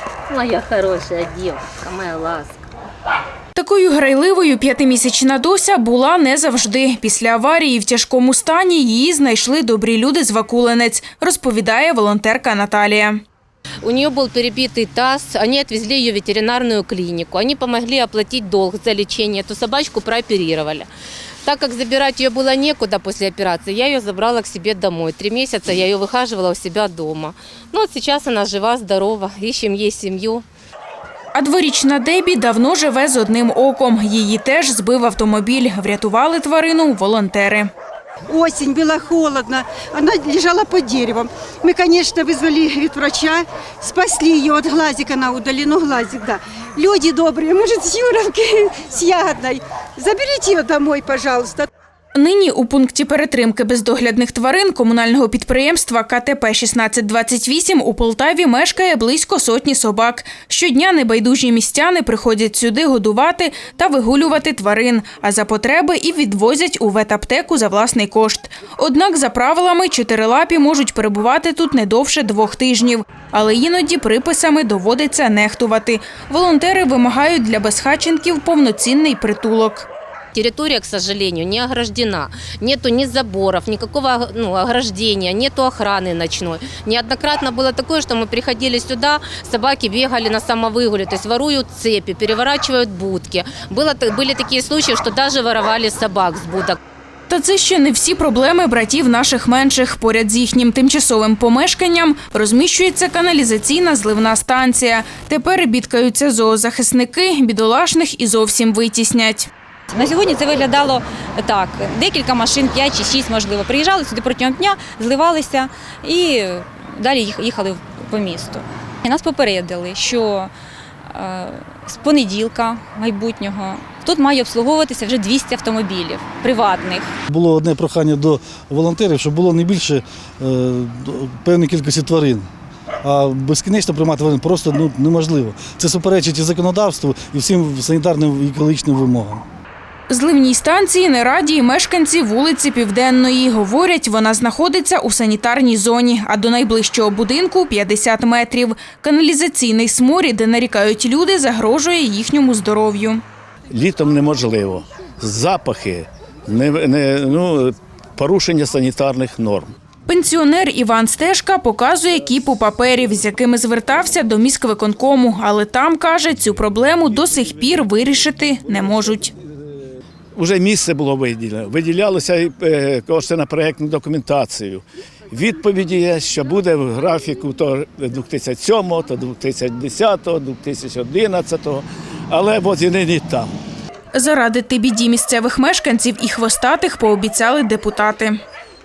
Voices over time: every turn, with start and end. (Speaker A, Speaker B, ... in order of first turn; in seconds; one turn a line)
Speaker A: 0.3-2.6
Speaker B: 3.5-13.2
Speaker A: 13.8-20.9
Speaker A: 21.4-30.4
Speaker B: 31.3-37.7
Speaker C: 38.3-51.7
Speaker B: 52.1-79.9
Speaker A: 80.3-96.8
Speaker B: 97.3-109.5
Speaker D: 109.9-120.5
Speaker D: 121.1-127.1
Speaker E: 127.3-132.5
Speaker E: 133.0-139.4
Speaker B: 140.1-153.2
Speaker F: 153.7-159.7
Speaker B: 160.1-169.3
Speaker F: 170.3-183.5
Speaker B: 184.1-188.4